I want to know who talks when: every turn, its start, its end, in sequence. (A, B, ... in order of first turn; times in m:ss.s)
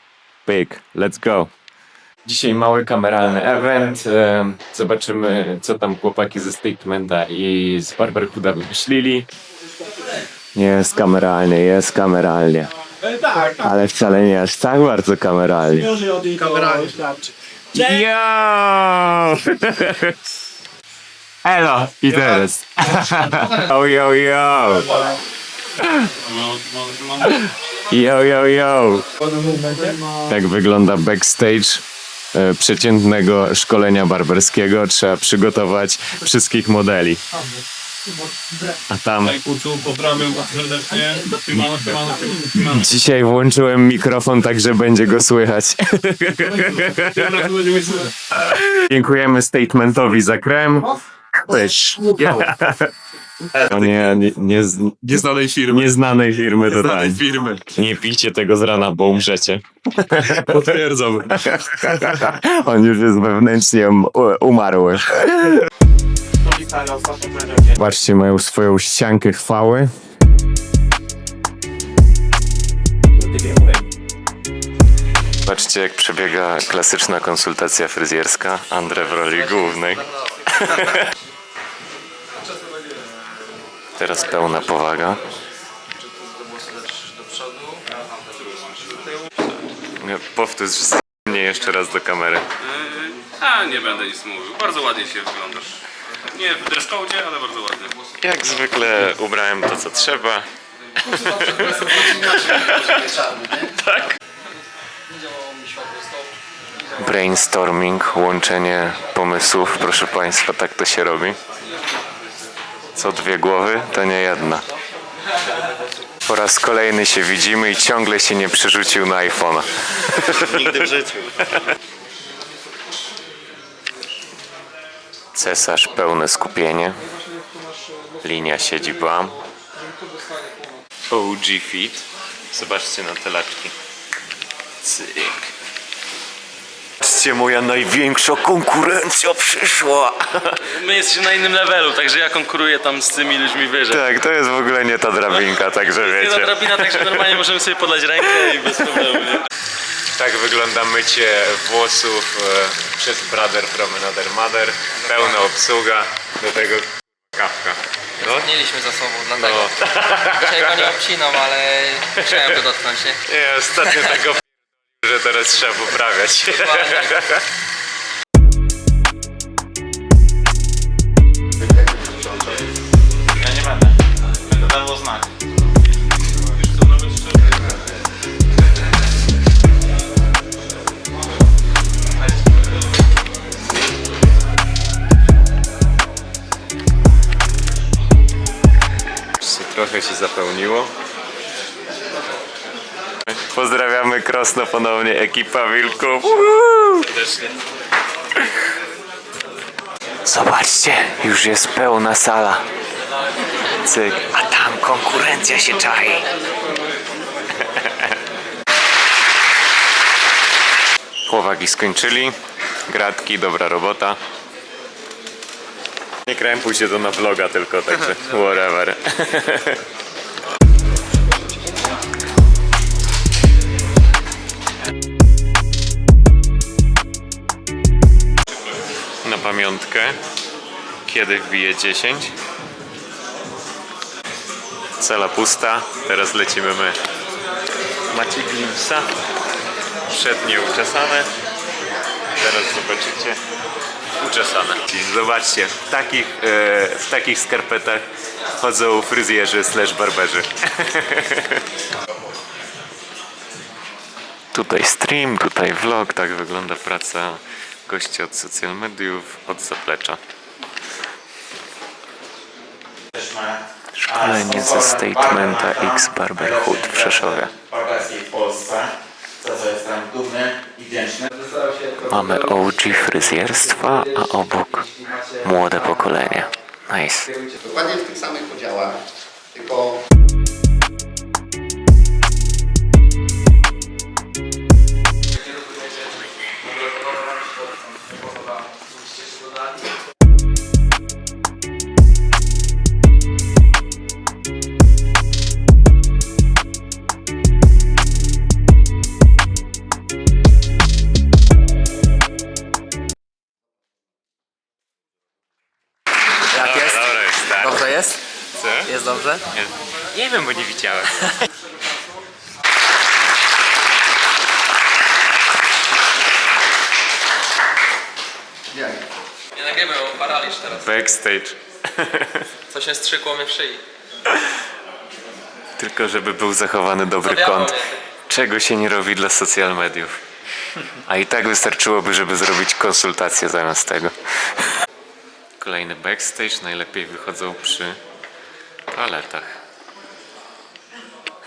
0:00.5-0:01.5 A
0:02.2-0:09.3 A
0:10.6-0:12.7 A
0:13.4-0:16.0 A
0:16.0-0:17.2 B
0:17.7-0:20.2 A
0:21.4-0:25.1 A
0:25.8-0:26.1 A
0:26.2-0:27.3 B
0:27.2-0:29.1 A
0:29.4-0:30.1 B
0:30.3-0:31.8 A
0:32.3-0:37.2 A
0:38.9-0:39.4 A
0:39.2-0:42.9 B
0:42.7-0:47.6 A
0:46.5-0:48.1 B
0:48.3-0:52.9 A
0:53.5-1:05.7 A
0:55.1-0:55.9 B
0:57.1-0:57.5 B
1:06.4-1:07.6 C
1:07.7-1:09.9 A
1:15.4-1:21.1 A
1:24.0-1:25.2 A
1:26.4-1:27.8 D
1:27.9-1:29.1 E
1:30.0-1:32.4 A
1:32.6-1:38.0 E
1:38.2-1:40.5 A
1:41.0-1:43.1 A
1:42.8-1:43.6 F
1:43.6-1:44.2 A
1:45.1-1:46.3 D
1:47.0-1:51.4 A
1:53.0-1:54.7 A
1:56.2-2:00.9 A
2:00.3-2:01.5 E
2:05.4-2:07.0 A
2:07.3-2:08.1 D
2:08.2-2:09.4 A
2:09.8-2:10.8 D
2:11.1-2:13.7 A
2:14.8-2:15.5 A
2:17.0-2:20.6 A
2:20.7-2:24.1 E
2:23.9-2:27.5 A
2:26.0-2:29.5 E
2:30.1-2:38.5 A
2:38.3-2:39.7 D
2:39.4-2:41.0 A
2:40.3-2:43.2 D
2:42.2-2:42.6 A
2:43.2-2:47.4 A
2:53.4-2:55.3 C
3:09.4-3:10.9 A
3:13.3-3:17.2 A
3:20.3-3:22.6 A
3:23.8-3:26.3 A
3:27.6-3:28.1 A
3:31.3-3:32.4 A
3:32.9-3:34.2 A
3:36.3-3:39.8 A
3:49.2-3:50.2 A
3:51.0-3:52.3 A
3:55.0-3:57.0 A
3:58.1-3:59.1 A
4:00.1-4:01.3 A
4:02.4-4:03.4 A
4:04.2-4:08.0 A
4:08.6-4:11.6 A
4:14.5-4:20.2 A
4:23.1-4:23.6 C
4:23.9-4:27.5 A
4:24.2-4:31.3 C
4:31.3-4:35.5 D
4:32.0-4:34.9 A
4:35.4-4:37.3 A
4:37.6-4:39.0 F
4:39.5-4:40.0 F
4:46.8-4:49.4 D
5:06.5-5:08.9 A
5:06.5-5:07.0 D
5:07.6-5:08.2 D
5:08.9-5:09.4 D
5:09.5-5:11.4 A
5:18.7-5:19.0 F
5:19.6-5:20.8 D
5:20.7-5:22.5 A
5:22.7-5:23.8 D
5:25.8-5:27.8 A
5:27.2-5:28.0 D
5:28.3-5:30.2 A
5:30.9-5:34.1 A
5:35.6-5:38.0 A
5:38.9-5:39.5 A